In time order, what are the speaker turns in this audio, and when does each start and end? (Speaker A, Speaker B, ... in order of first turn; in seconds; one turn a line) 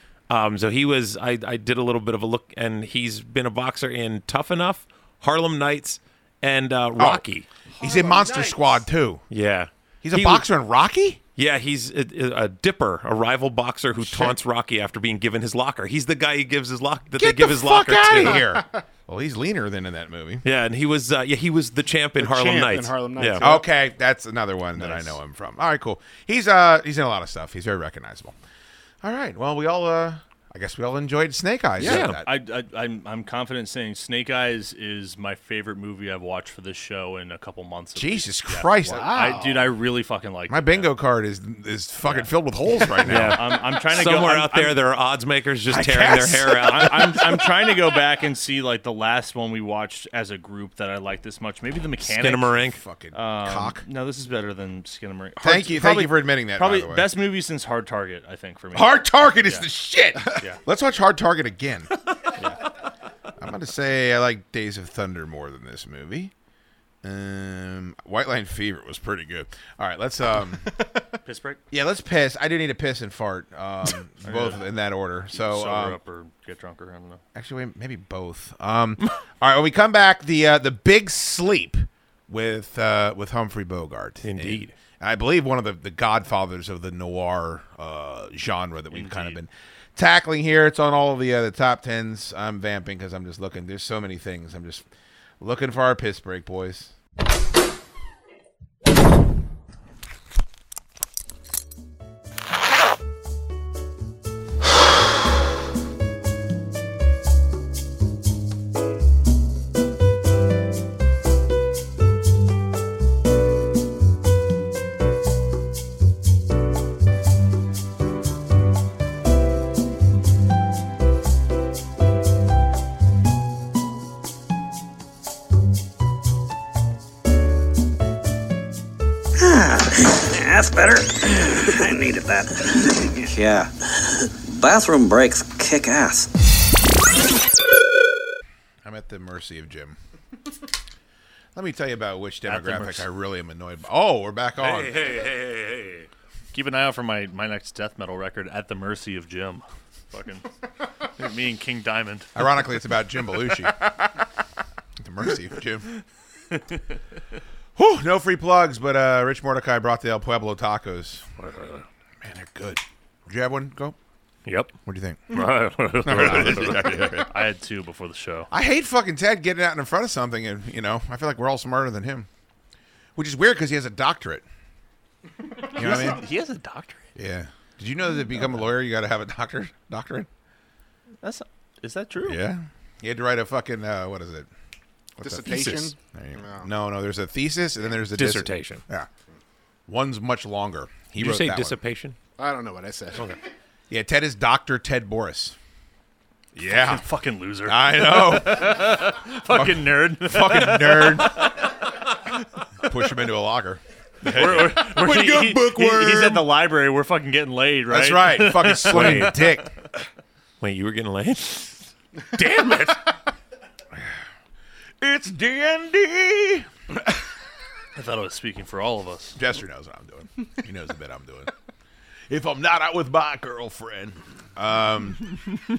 Speaker A: 0.3-7.5
Speaker B: 7.0-7.2
Speaker C: 7.8-8.8
Speaker B: 7.8-9.2
Speaker A: 9.3-10.4
Speaker B: 10.0-11.2
Speaker A: 11.3-18.4
Speaker B: 17.2-20.4
Speaker A: 20.4-23.4
Speaker C: 22.2-23.7
Speaker B: 23.4-28.4
Speaker D: 24.8-25.1
Speaker B: 29.0-32.3
Speaker A: 31.8-32.2
Speaker D: 31.8-40.9
Speaker B: 38.0-39.1
Speaker C: 38.8-39.6
Speaker B: 40.5-43.4
Speaker D: 42.0-44.8
Speaker A: 43.0-47.4
Speaker B: 45.7-47.5
Speaker D: 46.5-59.6
Speaker A: 52.0-52.8
Speaker B: 52.6-53.8
Speaker B: 55.4-57.1
Speaker B: 58.7-61.9
Speaker D: 60.3-60.6
Speaker D: 62.3-62.6
Speaker B: 63.4-66.3
Speaker B: 67.0-70.8
Speaker D: 71.2-71.6
Speaker B: 71.7-76.0
Speaker D: 74.2-74.6
Speaker D: 75.3-77.2
Speaker B: 77.3-94.8
Speaker A: 84.2-84.7
Speaker D: 88.9-89.4
Speaker B: 95.4-96.9
Speaker E: 129.4-136.3
Speaker B: 138.8-140.0
Speaker B: 141.6-144.9
Speaker D: 142.4-143.1
Speaker A: 144.6-146.1
Speaker D: 146.5-150.5
Speaker D: 151.0-152.3
Speaker B: 152.3-153.9
Speaker B: 155.0-155.9
Speaker B: 157.8-161.3
Speaker A: 161.4-161.8
Speaker B: 162.2-163.9
Speaker A: 164.4-164.7
Speaker B: 164.9-165.5
Speaker A: 165.3-167.1
Speaker D: 165.3-168.5
Speaker B: 166.0-167.3
Speaker B: 168.5-172.3
Speaker B: 173.2-174.4
Speaker D: 175.6-177.1
Speaker B: 175.7-176.2
Speaker B: 177.2-180.3
Speaker D: 181.2-182.4
Speaker B: 182.2-184.5
Speaker C: 185.2-186.7
Speaker B: 185.2-189.1
Speaker A: 188.2-188.8
Speaker B: 189.9-191.8
Speaker A: 191.2-192.2
Speaker C: 192.4-193.3
Speaker B: 193.9-195.6
Speaker B: 196.6-197.0
Speaker D: 196.6-202.1
Speaker B: 197.6-201.8
Speaker B: 202.8-206.4
Speaker D: 204.2-209.5
Speaker B: 207.9-209.7
Speaker A: 208.9-209.4
Speaker A: 210.6-213.0
Speaker B: 215.0-216.7
Speaker D: 217.9-219.4
Speaker B: 219.3-221.5
Speaker B: 222.3-225.4